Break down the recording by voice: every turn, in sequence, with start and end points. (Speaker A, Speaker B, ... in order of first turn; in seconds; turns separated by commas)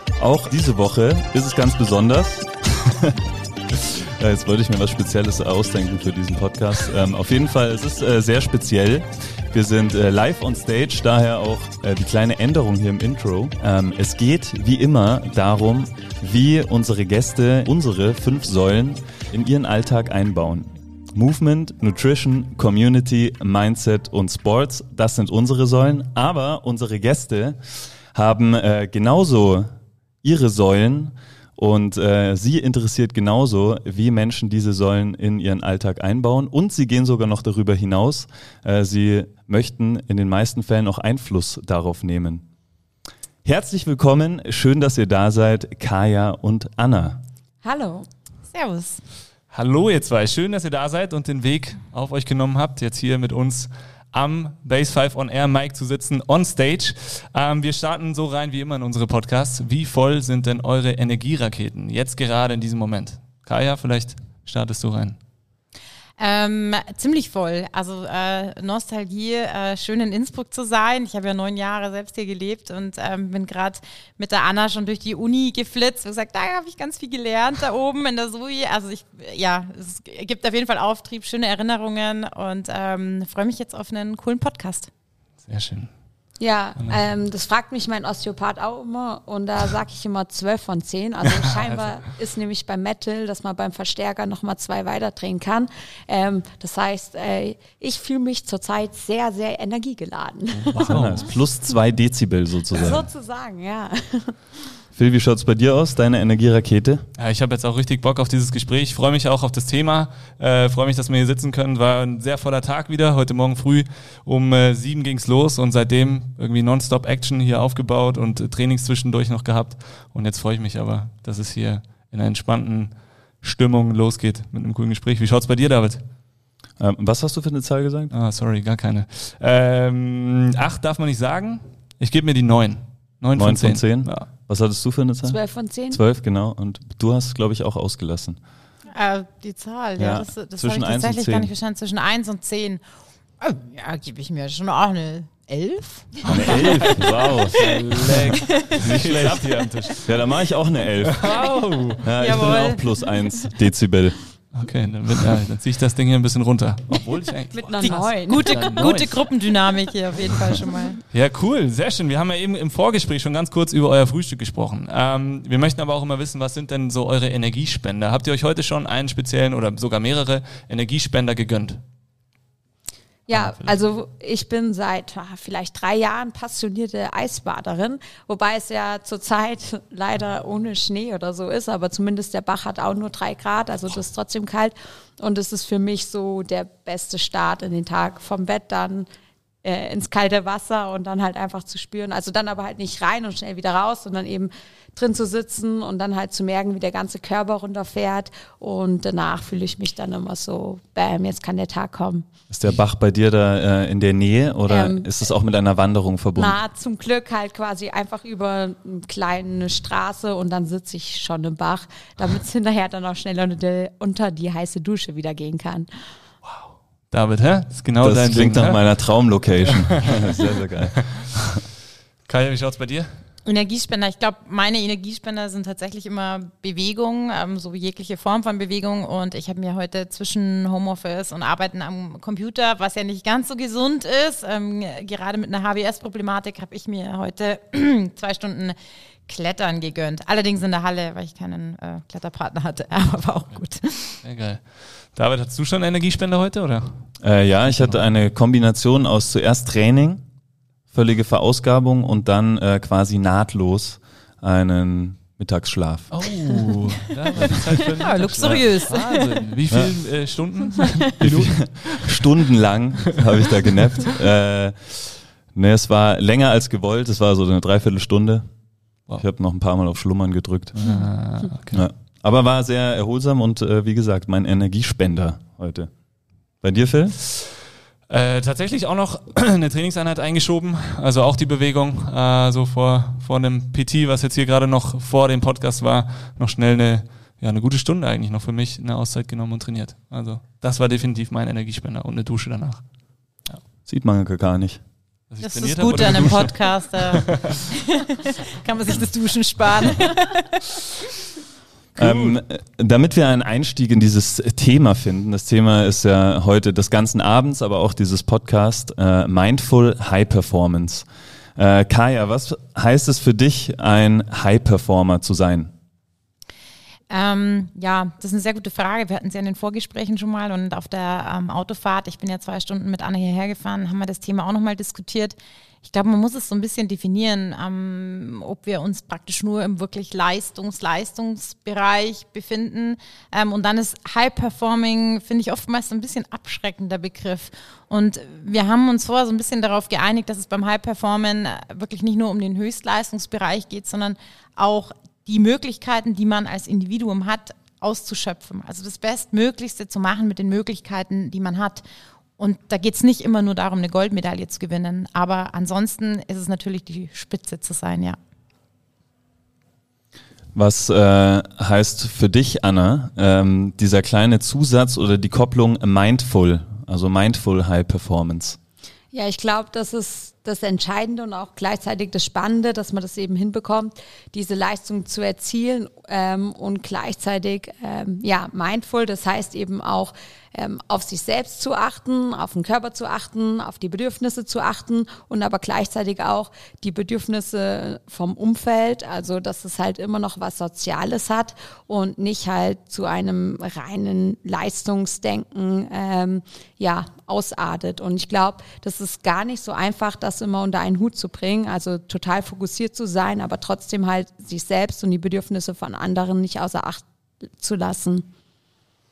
Speaker A: 0.2-3.2, Speaker A: 3.7-27.6, Speaker A: 28.1-42.4, Speaker A: 43.4-47.2, Speaker B: 47.6-48.1, Speaker C: 48.5-49.0, Speaker D: 49.5-65.2, Speaker C: 66.2-84.9, Speaker D: 85.4-85.9, Speaker B: 86.4-101.3, Speaker D: 91.6-91.8, Speaker D: 100.6-101.2, Speaker A: 100.9-103.1, Speaker B: 102.7-104.5, Speaker A: 104.9-107.0, Speaker D: 107.2-126.0, Speaker A: 126.8-128.1, Speaker D: 128.1-134.3, Speaker A: 133.3-135.4, Speaker B: 135.2-136.0, Speaker A: 135.9-138.4, Speaker C: 138.9-142.8, Speaker A: 140.0-141.5, Speaker C: 143.4-148.8, Speaker A: 146.3-147.6, Speaker D: 146.3-146.6, Speaker D: 147.5-150.1, Speaker A: 148.8-149.4, Speaker A: 150.0-151.3, Speaker D: 151.1-152.0, Speaker A: 152.0-154.2, Speaker C: 152.2-152.8, Speaker D: 154.5-159.2, Speaker B: 157.5-159.0, Speaker C: 157.8-161.0, Speaker D: 161.1-171.8, Speaker B: 173.3-189.1, Speaker D: 173.3-173.7, Speaker B: 189.6-202.2, Speaker A: 202.5-206.6, Speaker B: 204.7-205.1, Speaker B: 206.3-215.9, Speaker D: 216.4-220.2, Speaker A: 218.0-221.6, Speaker D: 222.3-223.2, Speaker C: 223.4-244.2, Speaker D: 244.2-248.0, Speaker A: 247.2-250.2, Speaker A: 250.9-256.3, Speaker D: 256.1-262.2, Speaker C: 258.0-259.5, Speaker A: 261.2-268.5, Speaker A: 269.1-270.8, Speaker D: 270.7-271.9, Speaker A: 271.7-275.9, Speaker A: 276.6-277.1, Speaker D: 277.2-277.5, Speaker D: 278.1-292.8, Speaker A: 293.8-294.8, Speaker D: 295.3-296.8, Speaker C: 295.4-300.6, Speaker A: 301.9-315.7, Speaker D: 302.0-302.4, Speaker C: 317.1-351.8, Speaker C: 352.4-358.2, Speaker A: 360.5-368.6, Speaker B: 369.1-408.3